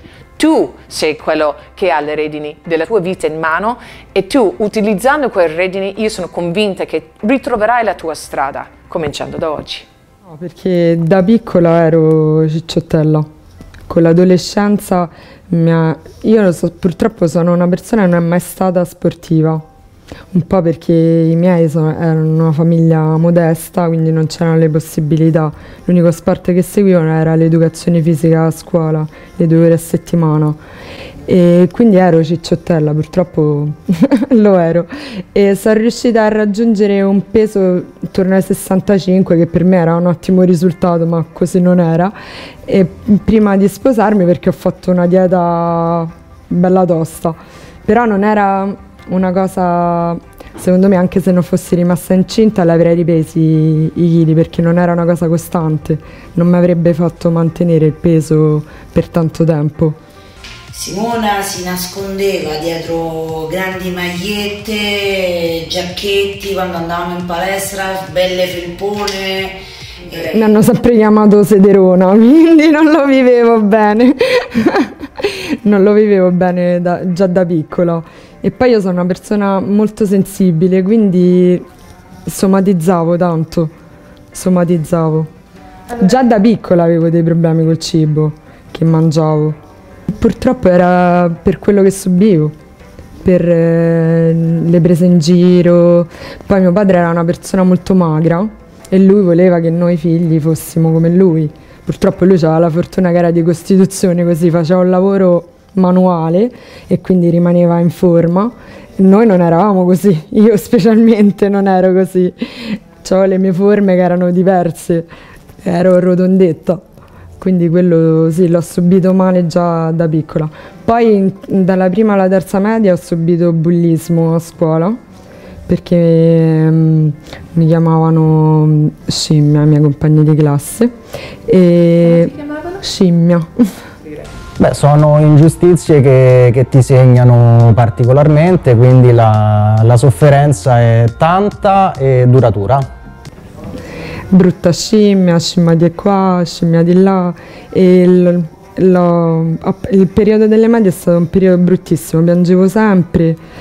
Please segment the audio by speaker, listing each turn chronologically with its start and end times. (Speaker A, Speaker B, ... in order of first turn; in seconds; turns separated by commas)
Speaker A: 0.4-9.9, Speaker B: 10.3-13.3, Speaker B: 13.9-19.6, Speaker B: 20.3-30.6, Speaker B: 31.3-42.1, Speaker B: 42.6-60.0, Speaker C: 60.7-70.3, Speaker A: 70.1-70.4, Speaker B: 70.3-81.6, Speaker B: 82.3-83.7, Speaker B: 84.3-85.3, Speaker B: 85.9-89.6, Speaker B: 90.1-92.5, Speaker B: 93.2-115.1, Speaker B: 115.6-116.8, Speaker B: 117.4-125.0, Speaker B: 125.7-130.9, Speaker B: 131.5-133.7, Speaker A: 132.0-132.8, Speaker D: 134.6-142.9, Speaker B: 144.3-153.4